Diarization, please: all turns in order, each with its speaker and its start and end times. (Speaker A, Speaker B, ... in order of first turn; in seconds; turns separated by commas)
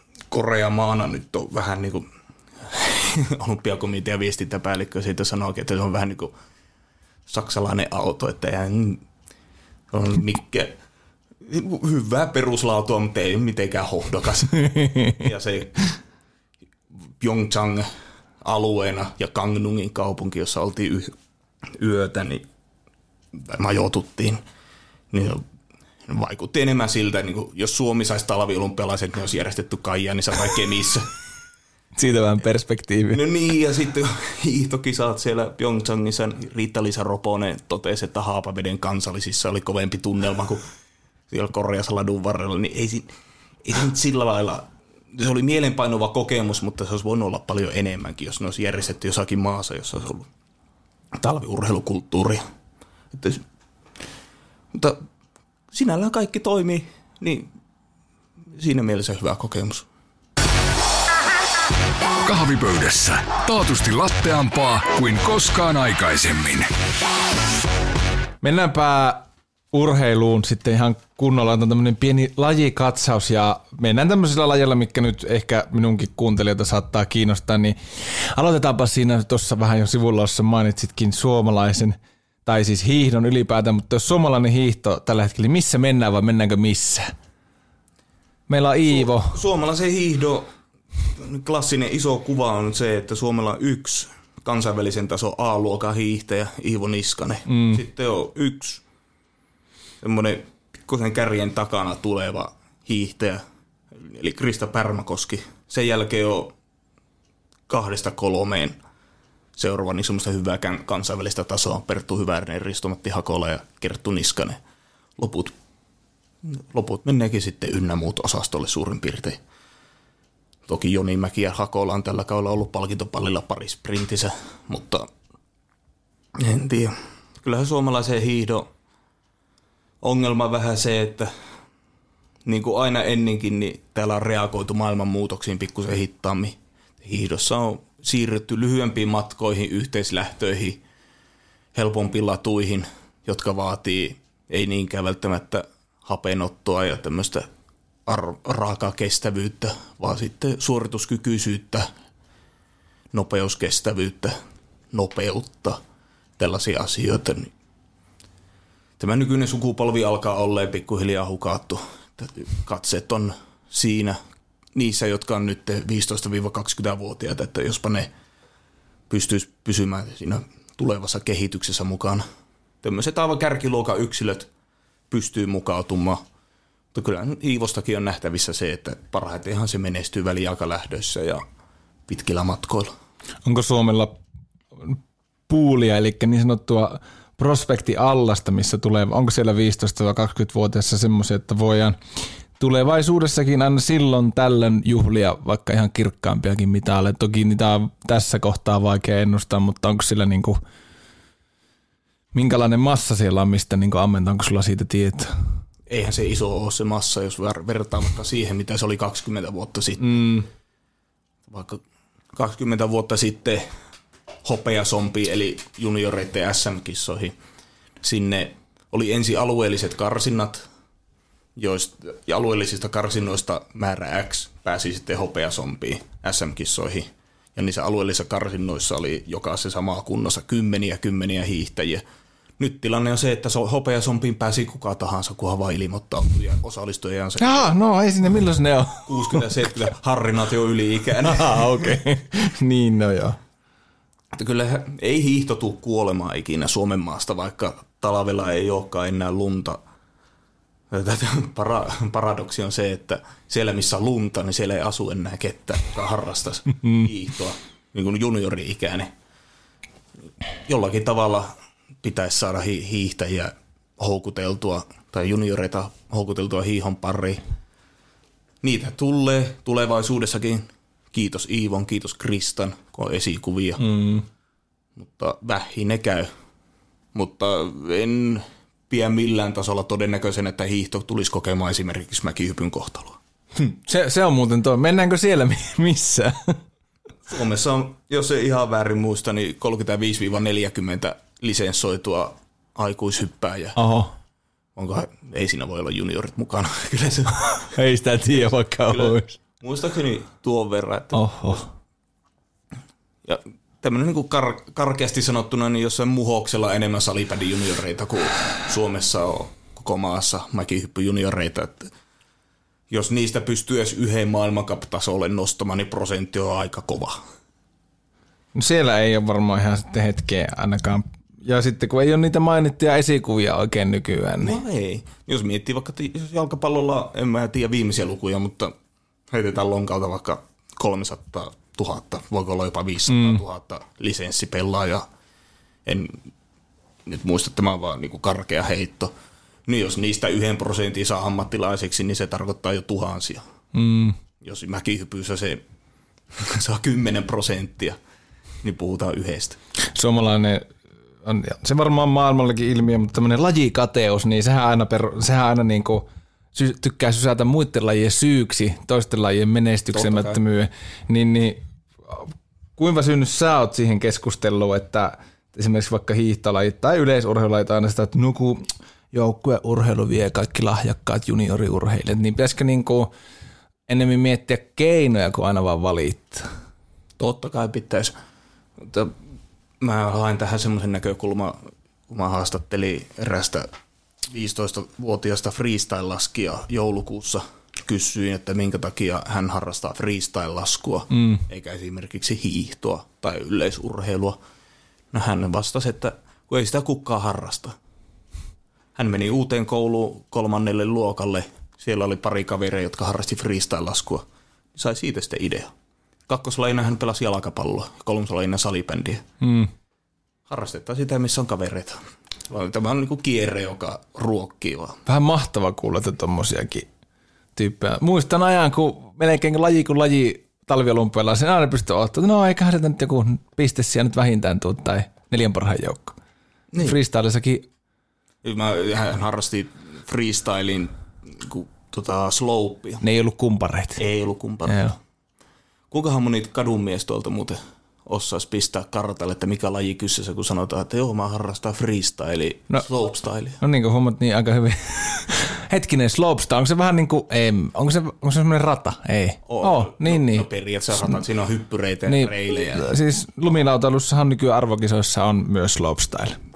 Speaker A: 0.3-2.1, Speaker A: 2.6-6.3, Speaker A: 7.3-9.1, Speaker A: 9.9-10.8, Speaker A: 11.4-15.9, Speaker B: 14.7-15.2, Speaker A: 17.2-17.9, Speaker A: 18.4-21.1, Speaker A: 21.7-22.5, Speaker A: 23.3-24.4, Speaker A: 25.1-25.4, Speaker A: 26.1-31.1, Speaker B: 32.0-33.2, Speaker A: 33.1-40.7, Speaker A: 41.3-43.1, Speaker A: 43.6-50.3, Speaker A: 51.1-52.4, Speaker A: 53.1-53.4, Speaker A: 54.7-55.0, Speaker A: 55.7-57.5, Speaker A: 58.5-59.9, Speaker C: 62.2-66.7, Speaker B: 68.4-87.1, Speaker B: 88.5-89.4, Speaker A: 88.9-90.5, Speaker A: 91.0-98.8, Speaker B: 97.5-97.8, Speaker A: 100.0-106.5, Speaker A: 107.7-108.8, Speaker A: 109.5-114.6, Speaker A: 115.2-115.5, Speaker A: 116.4-119.4, Speaker A: 120.7-125.1, Speaker A: 126.4-128.7, Speaker A: 130.0-131.3, Speaker A: 132.4-140.8, Speaker A: 141.7-147.5, Speaker A: 148.1-151.9, Speaker A: 153.1-154.4, Speaker A: 154.9-155.8, Speaker A: 156.4-157.5, Speaker A: 159.0-164.2, Speaker A: 164.8-168.1, Speaker A: 169.1-172.2, Speaker A: 172.8-174.5, Speaker A: 175.1-176.2, Speaker A: 176.9-181.4, Speaker A: 182.1-182.9, Speaker B: 183.4-184.2, Speaker B: 185.5-192.0, Speaker B: 192.6-200.6, Speaker B: 202.3-205.3, Speaker A: 205.9-210.3, Speaker B: 210.0-210.5, Speaker A: 211.5-211.8, Speaker A: 212.3-213.7, Speaker A: 214.4-217.4, Speaker A: 218.0-220.7, Speaker A: 221.6-232.0, Speaker A: 232.6-237.8, Speaker B: 237.4-239.4, Speaker A: 239.1-242.0, Speaker B: 241.2-243.4, Speaker A: 244.3-249.8, Speaker A: 250.9-259.1, Speaker A: 260.6-267.4, Speaker A: 268.6-273.9, Speaker B: 273.8-274.2, Speaker A: 275.0-276.3, Speaker A: 277.1-283.2, Speaker B: 283.6-286.6, Speaker A: 287.3-293.8, Speaker B: 293.8-294.1, Speaker A: 294.8-297.7, Speaker B: 297.6-299.4, Speaker A: 298.3-301.7, Speaker B: 301.1-301.7, Speaker A: 303.2-311.9, Speaker A: 312.9-317.2, Speaker B: 318.6-324.6, Speaker A: 324.4-328.7, Speaker A: 329.3-335.1, Speaker B: 333.1-333.4, Speaker A: 335.9-336.3, Speaker A: 337.1-339.1, Speaker A: 339.7-343.4, Speaker B: 343.7-344.2, Speaker A: 344.4-345.6, Speaker A: 346.4-348.0, Speaker A: 348.6-349.6, Speaker B: 349.9-350.7, Speaker B: 351.2-373.1, Speaker A: 359.9-360.4, Speaker B: 373.9-376.5, Speaker A: 377.2-378.1, Speaker A: 378.8-379.2, Speaker A: 379.8-381.6, Speaker A: 382.1-383.7, Speaker A: 384.2-394.4, Speaker B: 391.1-391.4, Speaker A: 395.1-397.8, Speaker A: 398.9-405.7, Speaker A: 406.3-409.2, Speaker B: 409.4-409.7, Speaker A: 410.5-415.0, Speaker B: 415.1-416.9, Speaker B: 417.6-426.2, Speaker A: 426.7-427.0, Speaker B: 426.8-427.7, Speaker A: 428.4-433.0, Speaker B: 433.0-434.0, Speaker A: 434.0-434.9, Speaker B: 434.7-435.0, Speaker A: 435.9-443.6, Speaker B: 443.6-450.5, Speaker A: 449.5-452.9, Speaker B: 452.1-456.4